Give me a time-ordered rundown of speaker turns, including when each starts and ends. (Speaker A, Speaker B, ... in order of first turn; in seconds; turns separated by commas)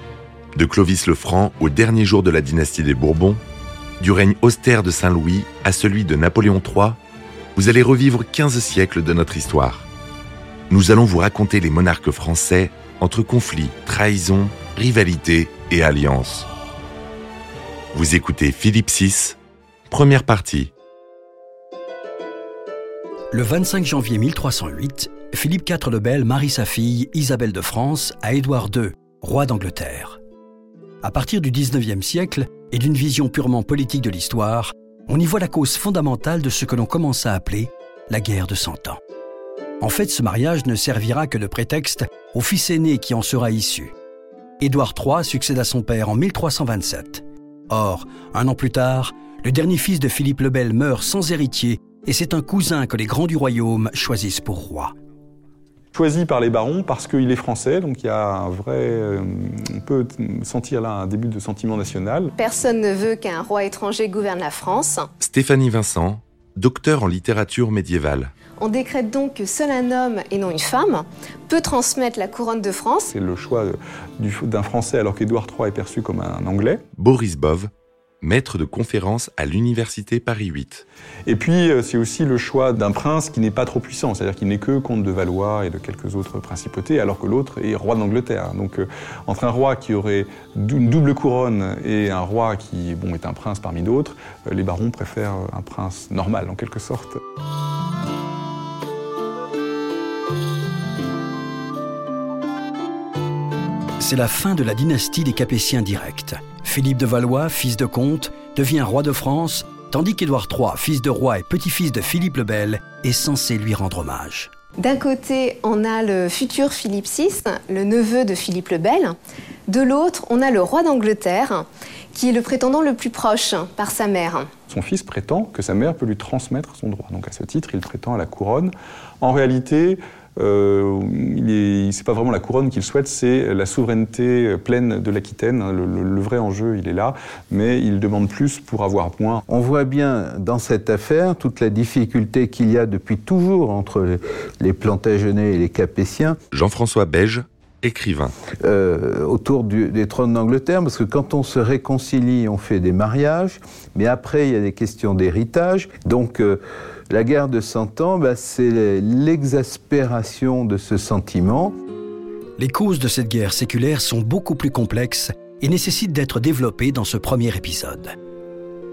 Speaker A: 0.6-3.4, Speaker A: 4.0-7.0, Speaker A: 7.5-9.9, Speaker A: 10.7-16.5, Speaker A: 17.9-19.4, Speaker A: 19.9-20.7, Speaker B: 23.3-30.2, Speaker B: 31.0-39.0, Speaker B: 39.8-43.9, Speaker B: 44.6-54.9, Speaker C: 56.0-62.3, Speaker D: 62.4-65.1, Speaker A: 65.2-68.3, Speaker D: 68.6-73.1, Speaker C: 73.1-76.8, Speaker A: 77.0-77.7, Speaker A: 78.2-80.8, Speaker C: 81.3-97.2, Speaker B: 104.0-114.5, Speaker D: 114.8-119.2, Speaker D: 119.7-124.5, Speaker C: 124.7-139.4, Speaker E: 139.5-146.4, Speaker A: 146.5-148.3, Speaker E: 148.6-161.8, Speaker B: 162.6-168.2